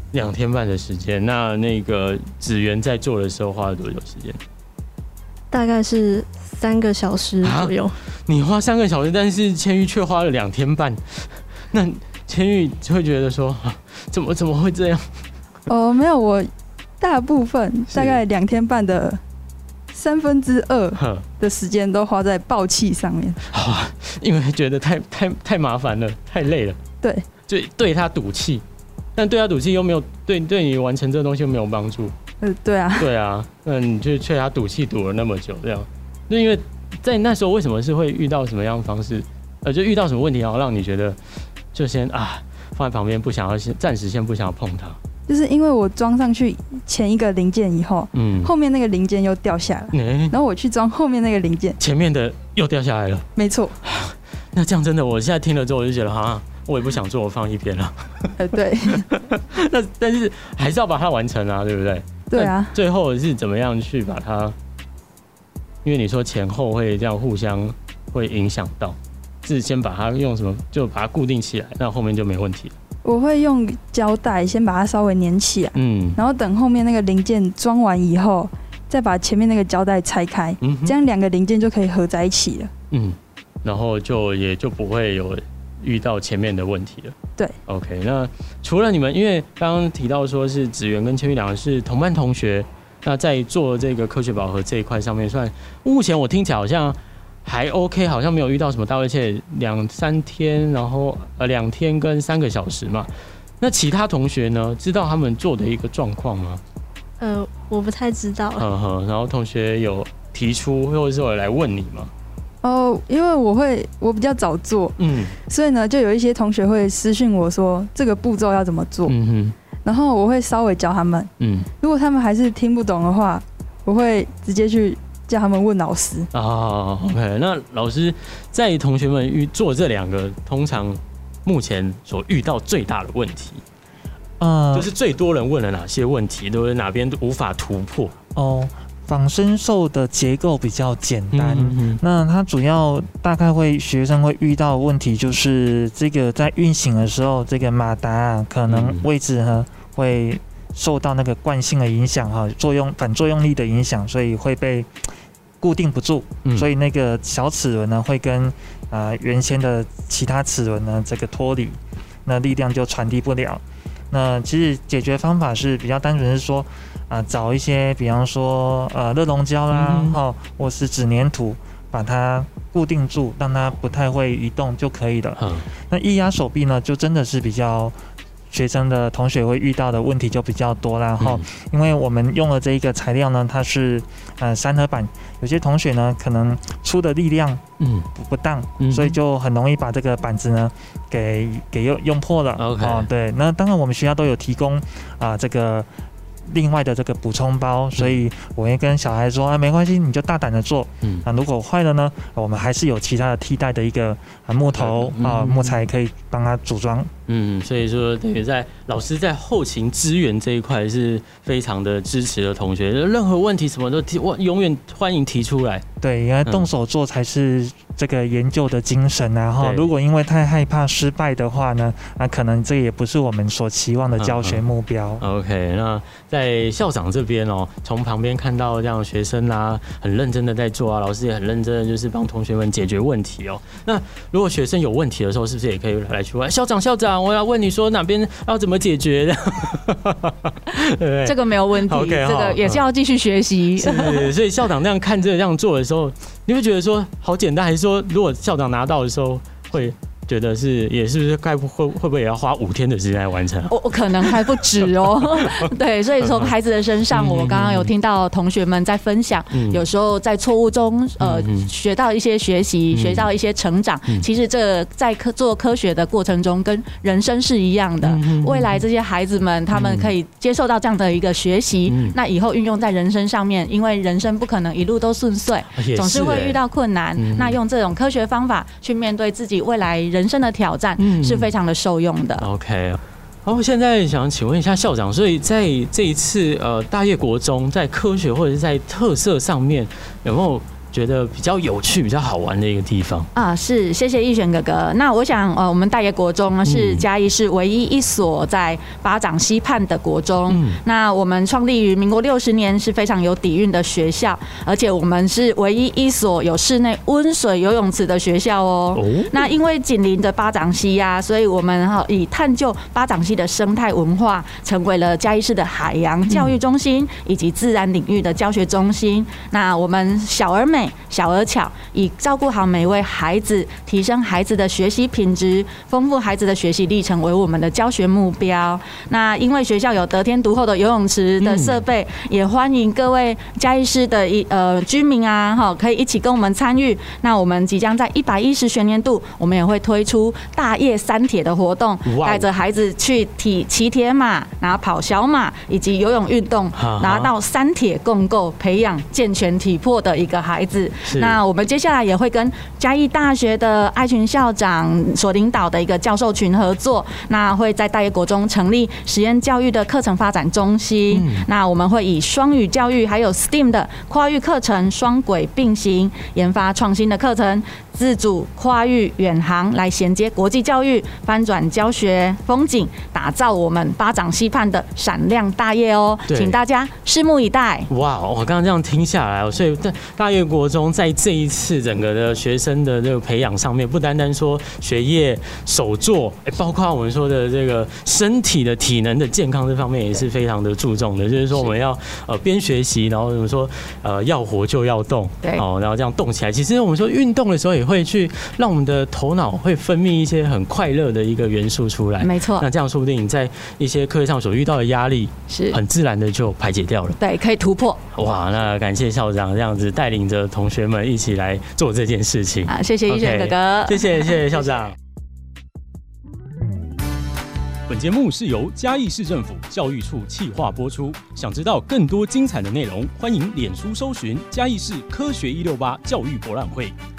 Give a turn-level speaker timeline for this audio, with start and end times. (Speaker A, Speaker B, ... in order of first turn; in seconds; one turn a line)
Speaker A: 0.1-4.4
Speaker B: 5.5-7.9
Speaker A: 7.4-7.7
Speaker A: 8.3-15.1
Speaker C: 15.7-19.2
Speaker A: 17.9-18.2
Speaker C: 19.9-23.4
Speaker A: 20.9-21.2
Speaker A: 23.5-26.8
Speaker A: 27.5-28.6
Speaker A: 29.1-32.1
Speaker C: 32.4-33.1
Speaker A: 33.0-41.2
Speaker A: 41.7-45.0
Speaker C: 45.3-51.8
Speaker A: 48.1-48.5
Speaker A: 49.9-50.4
Speaker A: 51.8-53.3
Speaker C: 53.4-53.8
Speaker A: 53.8-58.3
Speaker C: 58.4-59.1
Speaker A: 59.1-64.5
Speaker C: 62.3-62.7
Speaker A: 65.8-72.7
Speaker C: 73.0-82.7
Speaker A: 75.7-76.2
Speaker A: 80.6-81.0
Speaker A: 82.9-87.1
Speaker A: 87.7-103.1
Speaker A: 103.6-106.6
Speaker B: 107.2-108.7
Speaker A: 108.6-112.1
Speaker C: 112.6-119.1
Speaker A: 115.0-115.3
Speaker A: 119.1-119.5
Speaker C: 119.8-121.3
Speaker A: 121.4-121.7
Speaker C: 121.8-126.3
Speaker A: 126.3-133.6
Speaker D: 134.4-134.9
Speaker A: 134.7-138.1
Speaker D: 138.3-154.9
Speaker A: 141.3-142.0
Speaker A: 148.7-149.0
Speaker D: 155.6-177.9
Speaker A: 169.7-170.2
Speaker A: 175.4-175.6
Speaker D: 178.5-187.6
Speaker A: 181.2-181.4
Speaker A: 187.8-188.1
Speaker D: 188.1-195.9
Speaker A: 188.8-189.2
Speaker A: 192.6-193.1
Speaker D: 196.4-207.1
Speaker A: 204.7-205.8
Speaker A: 207.3-215.8
Speaker D: 216.0-225.2
Speaker A: 219.6-219.9
Speaker A: 224.2-224.6
Speaker A: 225.2-242.8
Speaker E: 241.2-244.3
Speaker A: 243.8-256.5
Speaker E: 253.7-282.5
Speaker A: 257.1-257.9
Speaker A: 259.5-259.8
Speaker A: 261.2-261.7
Speaker A: 262.9-263.3
Speaker A: 268.0-268.8
Speaker A: 269.7-270.1
Speaker A: 271.9-272.2
Speaker A: 275.8-276.6
Speaker A: 277.1-277.6
Speaker A: 281.0-281.5
Speaker A: 282.4-293.3
Speaker E: 293.3-377.9
Speaker A: 296.6-297.1
Speaker A: 300.5-300.8
Speaker A: 308.9-309.5
Speaker A: 316.3-316.6
Speaker A: 331.4-331.8
Speaker A: 342.0-342.5
Speaker A: 346.8-347.3
Speaker A: 351.1-351.4
Speaker A: 361.1-361.5
Speaker A: 376.3-376.6
Speaker A: 377.9-407.2
Speaker E: 402.2-402.6
Speaker E: 405.5-405.8
Speaker E: 407.2-408.0
Speaker A: 408.1-414.9
Speaker E: 412.7-414.3
Speaker A: 417.9-426.9